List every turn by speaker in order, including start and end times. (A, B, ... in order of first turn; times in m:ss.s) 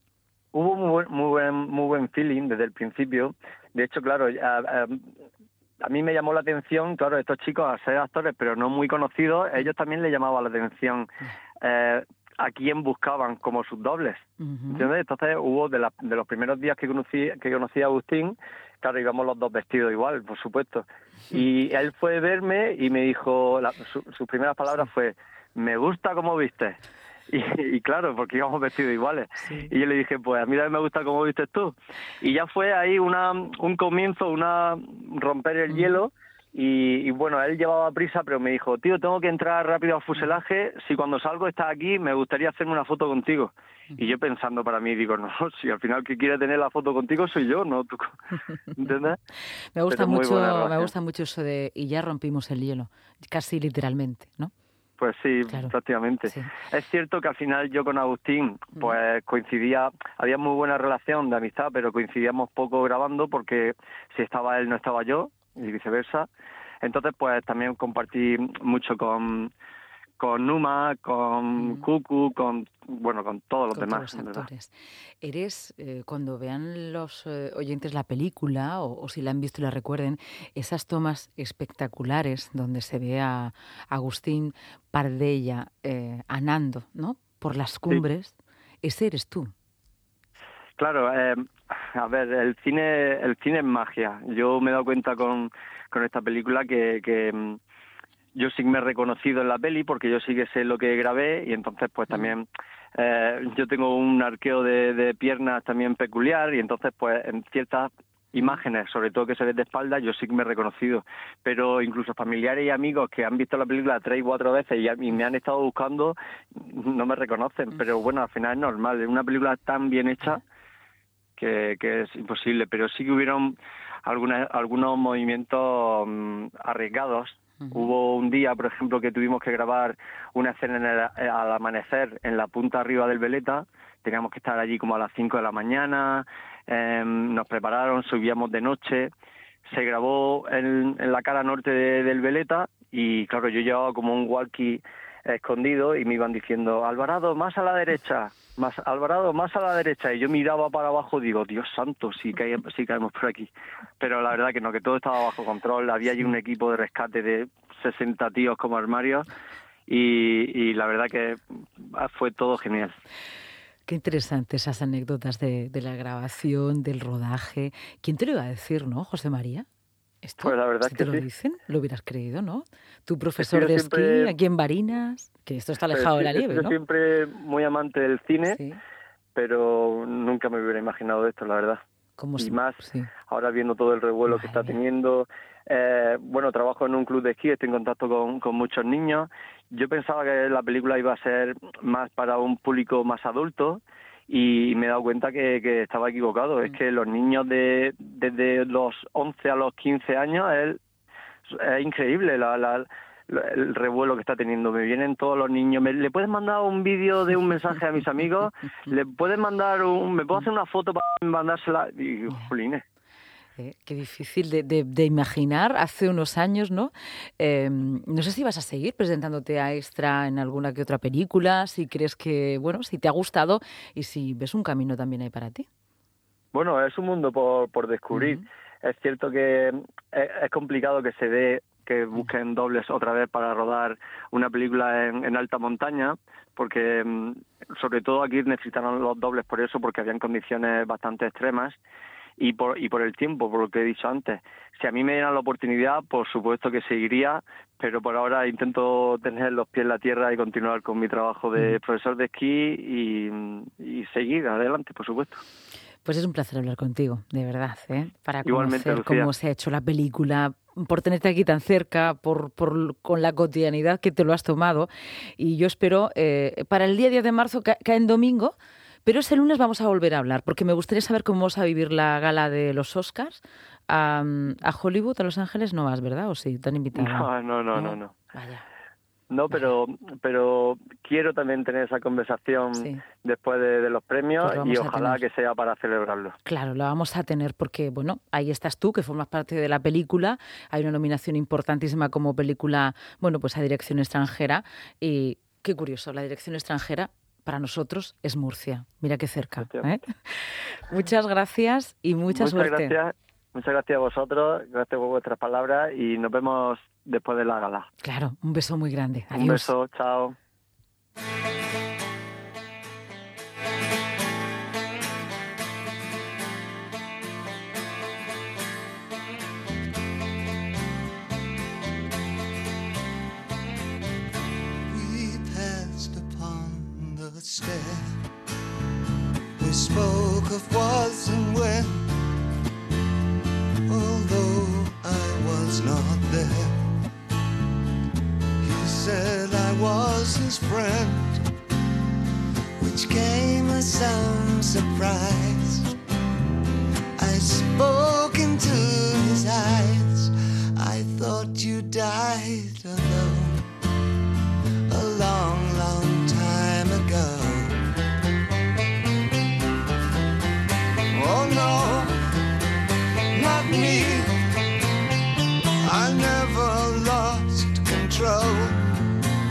0:00.5-0:05.1 A
0:05.8-0:11.1 A
0:11.6-0:26.8 A
0:14.4-0:14.9 B
0:27.3-0:48.2 A
0:48.8-0:49.2 A
0:49.8-0:54.5 B
0:49.9-0:50.9 A
0:55.0-1:06.3 A
1:06.8-1:09.5 A
1:10.2-1:14.5 A
1:13.7-1:29.5 B
1:30.8-1:37.6 A
1:38.4-2:00.4 A
2:01.4-2:19.1 A
2:19.7-2:39.3 A
2:39.9-2:43.0 A
2:43.9-2:49.7 B
2:50.2-2:56.8 B
2:50.4-2:51.2 A
2:53.4-2:54.4 A
2:55.9-2:58.6 A
2:58.5-2:58.8 B
2:59.4-3:01.8 A
3:02.2-3:03.1 B
3:02.4-3:20.8 A
3:04.3-3:04.8 B
3:21.5-3:32.8 A
3:33.6-3:45.7 B
3:46.5-4:01.8 A
3:48.2-3:48.4 B
4:02.4-4:15.4 A
4:16.0-4:38.6 B
4:18.4-4:19.3 A
4:37.0-4:38.1 A
4:39.3-4:46.4 A
4:42.8-4:43.0 B
4:44.4-4:45.2 B
4:46.5-5:02.9 B
4:59.6-4:59.9 A
5:02.3-5:07.9 A
5:08.0-5:09.7 B
5:09.3-5:10.4 A
5:24.9-5:28.2 C
5:29.6-5:32.1 C
5:33.9-5:36.8 C
5:38.6-5:41.5 C
5:42.8-5:45.9 C
5:47.2-5:53.7 C
5:54.9-5:57.8 C
6:01.1-6:02.3 C
6:03.3-6:04.4 C
6:05.8-6:08.9 C